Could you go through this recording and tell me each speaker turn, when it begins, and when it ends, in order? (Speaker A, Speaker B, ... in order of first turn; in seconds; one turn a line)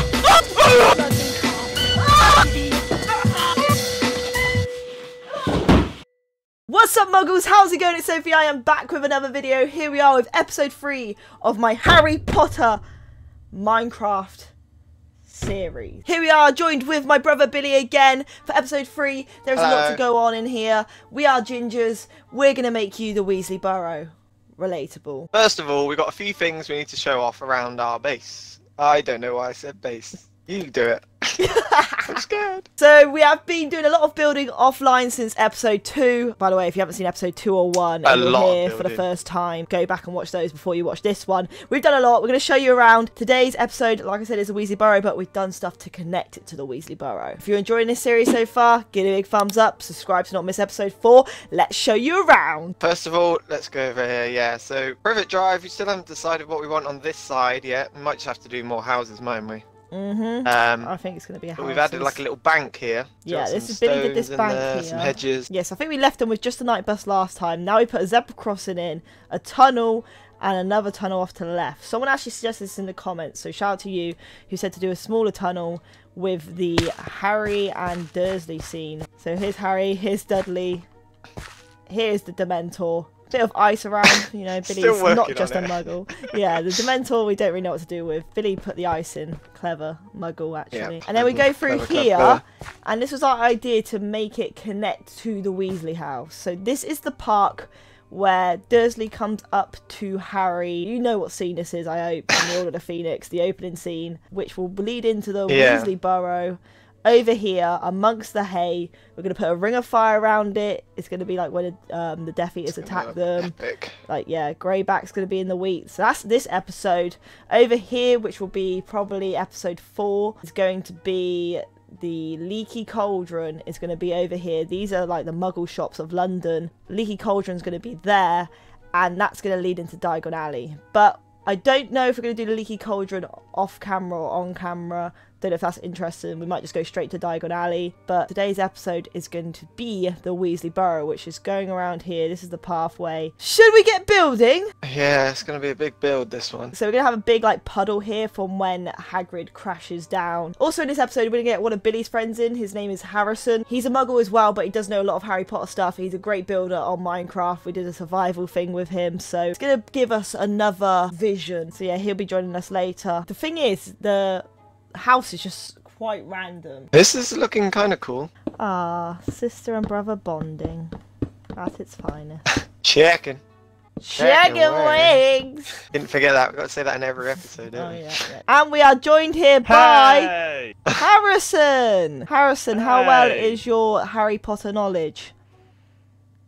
Speaker A: 0.6-2.8
Speaker A: 6.7-12.8
Speaker A: 13.5-14.5
Speaker A: 15.3-25.3
Speaker B: 19.6-20.0
Speaker B: 25.3-31.4
Speaker A: 31.4-32.2
Speaker B: 32.1-32.6
Speaker A: 32.8-52.8
Speaker B: 38.0-39.0
Speaker B: 52.8-59.6
Speaker A: 59.9-62.2
Speaker B: 60.4-60.9
Speaker B: 61.6-65.5
Speaker A: 63.2-80.9
Speaker A: 81.9-113.5
Speaker B: 84.6-86.5
Speaker B: 90.7-92.4
Speaker B: 105.5-105.9
Speaker B: 112.7-114.0
Speaker A: 114.1-144.7
Speaker B: 144.8-146.7
Speaker A: 146.7-166.9
Speaker B: 166.9-168.3
Speaker A: 168.6-170.9
Speaker A: 171.6-172.4
Speaker B: 172.8-173.4
Speaker A: 174.0-175.8
Speaker B: 174.2-175.2
Speaker B: 175.9-178.1
Speaker A: 177.7-180.3
Speaker C: 179.6-180.7
Speaker A: 180.9-185.3
Speaker C: 182.7-183.6